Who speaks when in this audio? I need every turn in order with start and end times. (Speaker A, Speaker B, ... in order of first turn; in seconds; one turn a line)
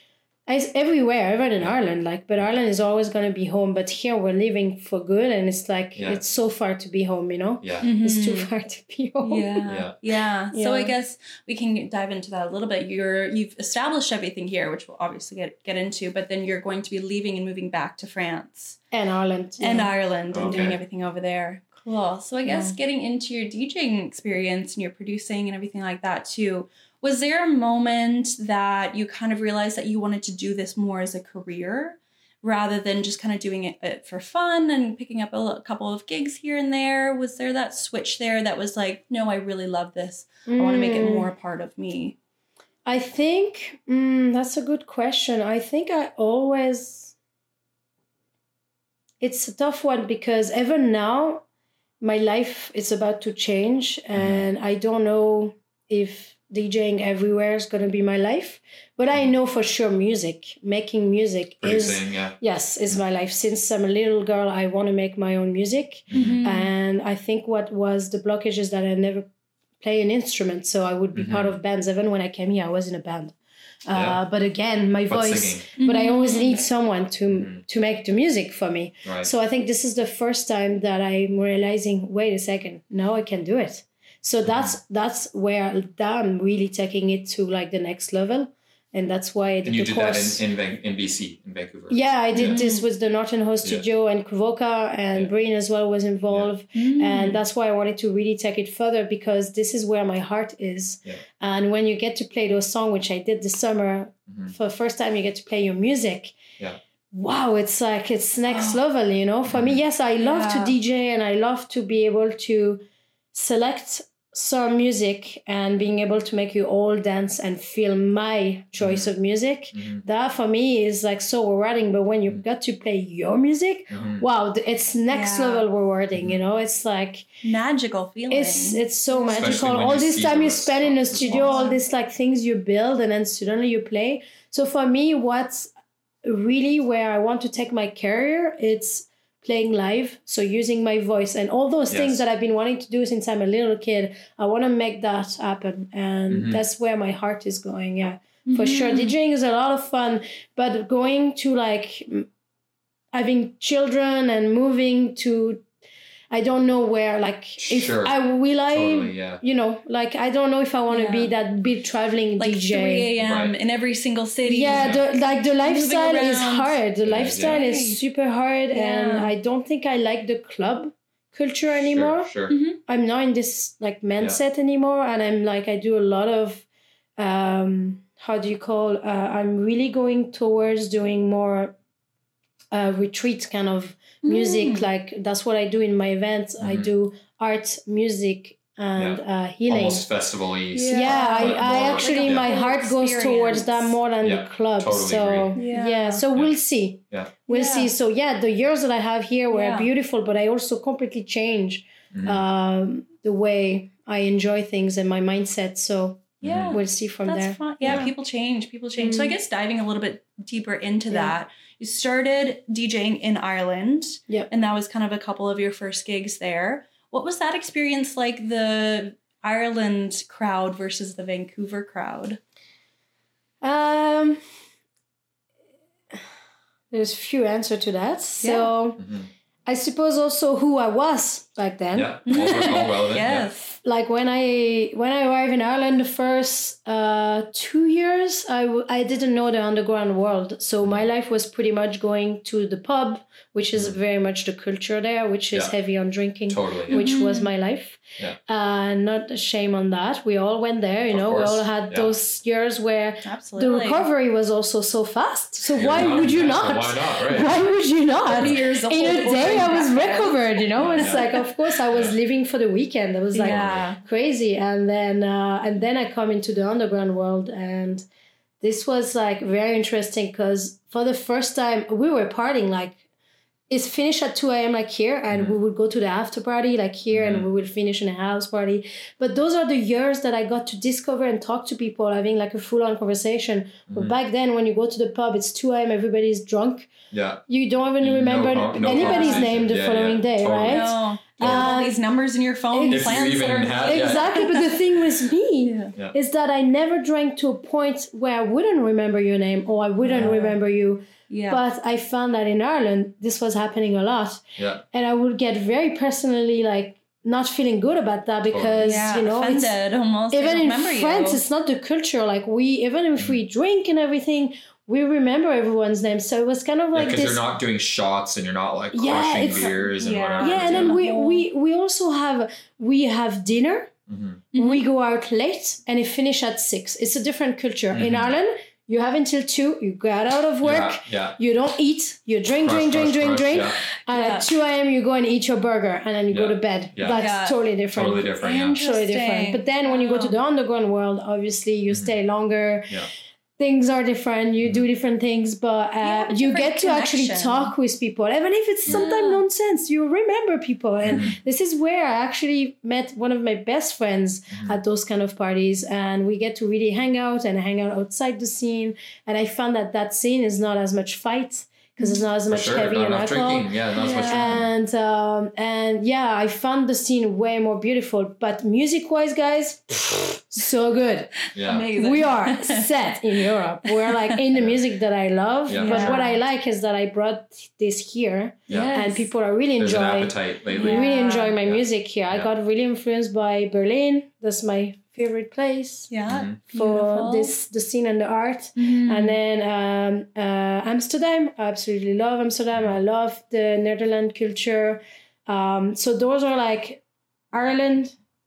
Speaker A: 0.5-9.6
Speaker B: 6.0-6.2
Speaker B: 7.6-7.9
Speaker C: 7.8-8.5
Speaker C: 9.2-18.8
Speaker B: 9.6-9.9
Speaker A: 10.5-10.9
Speaker A: 18.9-19.9
Speaker C: 19.6-42.1
Speaker B: 20.3-20.8
Speaker A: 22.4-22.8
Speaker A: 40.5-41.3
Speaker A: 42.9-47.1
Speaker A: 49.2-51.4
Speaker A: 52.0-69.3
Speaker B: 54.1-54.5
Speaker B: 61.6-62.4
Speaker B: 66.1-66.4
Speaker C: 66.1-66.7
Speaker A: 69.8-73.3
Speaker B: 71.1-71.6
Speaker A: 73.9-90.4
Speaker B: 73.9-74.2
Speaker B: 75.1-75.7
Speaker C: 75.8-76.5
Speaker B: 84.4-84.7
Speaker B: 89.6-92.6
Speaker A: 91.9-106.4
Speaker C: 92.3-92.8
Speaker C: 96.7-97.4
Speaker A: 107.1-112.8
Speaker C: 108.5-108.8
Speaker B: 109.5-109.8
Speaker C: 110.2-110.7
Speaker A: 113.3-127.3
Speaker B: 118.8-119.1
Speaker B: 119.7-120.0
Speaker B: 123.9-124.2
Speaker C: 125.1-125.7
Speaker C: 127.4-129.6
Speaker A: 128.3-135.7
Speaker B: 129.3-131.6
Speaker C: 131.2-131.8
Speaker A: 136.2-152.3
Speaker B: 141.9-142.2
Speaker B: 146.3-146.6
Speaker C: 148.5-149.1
Speaker A: 153.1-155.6
Speaker A: 156.3-163.1
Speaker B: 157.6-158.2
Speaker B: 158.7-159.4
Speaker C: 160.9-161.3
Speaker C: 162.4-165.0
Speaker B: 163.2-163.5
Speaker A: 164.4-172.3
Speaker B: 164.6-165.0
Speaker C: 165.6-166.7
Speaker B: 167.0-167.6
Speaker C: 167.4-168.0
Speaker C: 168.7-169.3
Speaker B: 171.9-172.5
Speaker C: 172.5-172.8
Speaker A: 172.8-181.7
Speaker A: 182.7-190.1
Speaker C: 184.2-184.9
Speaker B: 186.6-186.9
Speaker B: 188.9-192.5
Speaker C: 190.7-194.0
Speaker A: 190.9-208.0
Speaker B: 194.2-195.5
Speaker C: 195.6-196.2
Speaker C: 197.5-197.9
Speaker C: 199.5-199.9
Speaker B: 202.1-202.4
Speaker B: 206.4-206.8
Speaker C: 206.4-222.4
Speaker A: 209.0-209.3
Speaker A: 211.1-211.3
Speaker A: 223.6-224.4
Speaker A: 226.9-229.0
Speaker C: 228.4-228.7
Speaker B: 229.0-229.3
Speaker A: 229.7-232.7
Speaker B: 231.9-233.5
Speaker C: 232.3-233.8
Speaker A: 233.8-268.0
Speaker B: 246.5-247.0
Speaker C: 246.9-247.5
Speaker B: 251.1-252.1
Speaker C: 253.2-254.1
Speaker B: 255.8-257.6
Speaker C: 258.3-261.4
Speaker B: 260.8-261.2
Speaker B: 261.9-262.1
Speaker C: 263.3-264.0
Speaker B: 263.4-263.8
Speaker A: 268.6-273.0
Speaker A: 273.7-286.9
Speaker B: 275.3-275.6
Speaker B: 277.1-277.5
Speaker B: 287.1-287.4
Speaker A: 287.5-292.0
Speaker B: 288.0-291.8
Speaker C: 288.8-289.5
Speaker C: 290.7-294.8
Speaker A: 292.7-309.7
Speaker B: 292.9-294.4
Speaker C: 295.6-295.9
Speaker C: 300.0-300.6
Speaker C: 301.3-301.6
Speaker B: 304.6-304.8
Speaker B: 308.5-309.0
Speaker C: 308.8-311.4
Speaker A: 310.3-317.4
Speaker B: 316.9-321.0
Speaker A: 318.9-319.8
Speaker C: 319.5-321.4
Speaker A: 320.4-323.9
Speaker B: 324.1-324.4
Speaker C: 324.5-324.8
Speaker A: 324.5-343.0
Speaker B: 327.9-328.3
Speaker B: 330.6-331.4
Speaker B: 332.5-333.8
Speaker C: 334.1-334.5
Speaker B: 336.3-337.2
Speaker C: 337.1-337.6
Speaker B: 337.9-338.8
Speaker C: 338.4-340.4
Speaker A: 343.6-386.1
Speaker C: 346.0-347.7
Speaker C: 348.9-349.4
Speaker B: 351.0-351.4
Speaker B: 354.5-354.8
Speaker B: 362.5-364.7
Speaker C: 364.0-364.6
Speaker B: 371.5-371.9
Speaker C: 371.5-374.4
Speaker B: 375.7-376.2
Speaker C: 375.8-376.4
Speaker C: 378.7-379.3
Speaker B: 379.8-381.1
Speaker C: 380.7-381.6
Speaker B: 381.6-382.5
Speaker C: 386.1-387.5
Speaker B: 386.3-386.6
Speaker A: 386.7-398.1
Speaker C: 388.8-389.4